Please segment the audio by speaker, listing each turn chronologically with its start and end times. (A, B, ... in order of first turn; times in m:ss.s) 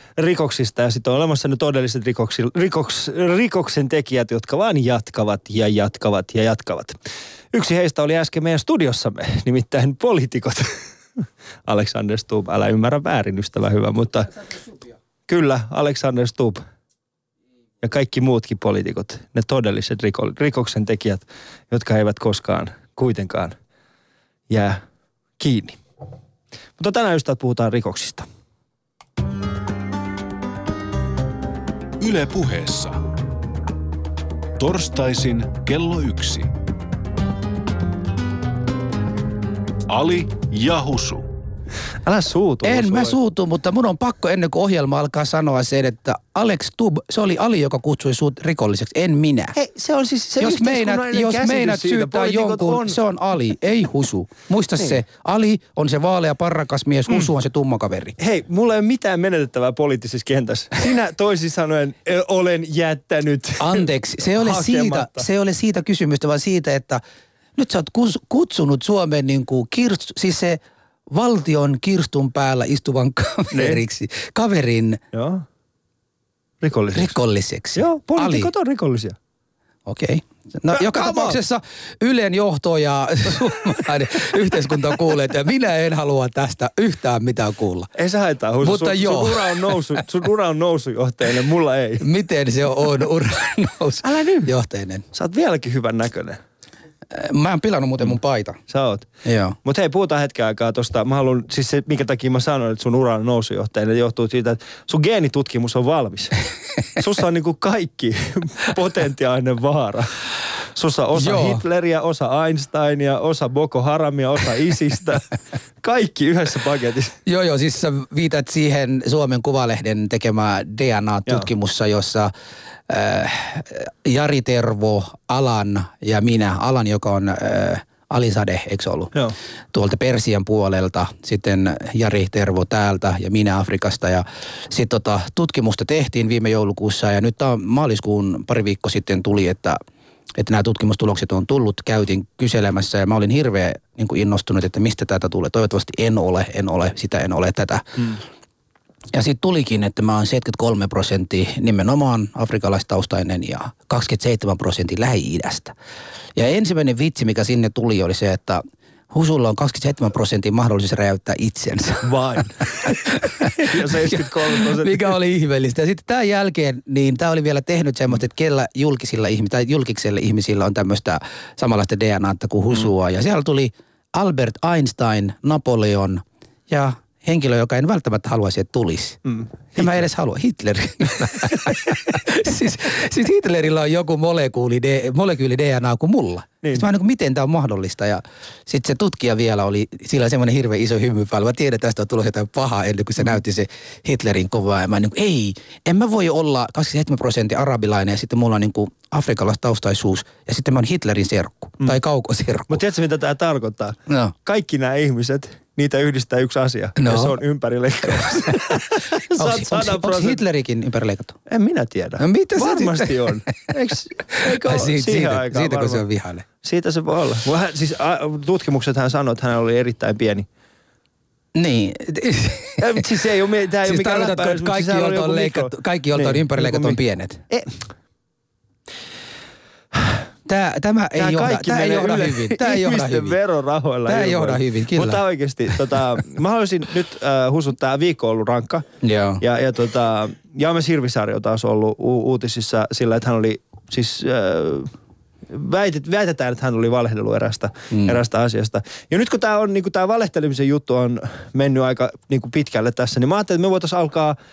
0:00.2-0:07.0 A
0:07.5-0:14.7 A
0:15.3-0:16.6 A
0:17.8-0:23.6 A
0:24.5-0:24.8 A
0:25.4-0:25.8 A
0:26.8-0:28.3 A
0:32.0-0:33.0 B
0:34.6-0:36.5 B
0:39.9-0:41.3 B
0:42.0-0:43.2 A
0:42.6-0:49.6 C
0:49.6-0:53.0 A
0:50.4-0:58.2 C
0:58.2-1:05.3 A
1:03.6-1:07.0 C
1:07.6-1:15.0 C
1:13.5-1:13.8 A
1:15.1-1:15.4 A
1:16.6-1:17.1 A
1:17.0-1:18.5 C
1:17.8-1:19.2 A
1:19.9-1:27.9 C
1:20.7-1:21.4 A
1:28.0-1:32.1 A
1:28.6-1:30.0 C
1:32.0-1:35.0 C
1:34.0-1:34.5 A
1:35.1-1:36.4 A
1:37.1-1:38.6 C
1:38.7-1:39.1 A
1:39.2-1:39.6 C
1:39.6-1:50.2 A
1:50.7-1:57.2 A
1:51.2-1:51.6 C
1:57.3-2:02.3 C
2:02.9-2:09.1 C
2:09.7-2:19.8 C
2:20.4-2:28.2 C
2:29.1-2:35.7 C
2:36.4-2:42.1 C
2:42.0-2:45.1 A
2:43.4-2:59.2 C
2:59.2-2:59.9 A
2:59.8-3:22.8 C
3:22.7-3:30.4 A
3:24.1-3:24.3 C
3:27.0-3:27.4 C
3:28.2-3:28.6 C
3:29.3-3:31.4 C
3:31.5-3:36.0 A
3:32.2-3:33.5 C
3:34.3-3:36.4 C
3:36.6-3:40.5 A
3:41.6-3:43.0 C
3:42.8-3:47.8 A
3:43.8-3:47.4 C
3:50.5-3:53.4 C
3:51.2-3:58.8 A
3:54.1-3:55.2 C
3:59.0-3:59.4 C
3:59.4-4:04.9 A
4:05.5-4:14.4 A
4:07.9-4:08.2 C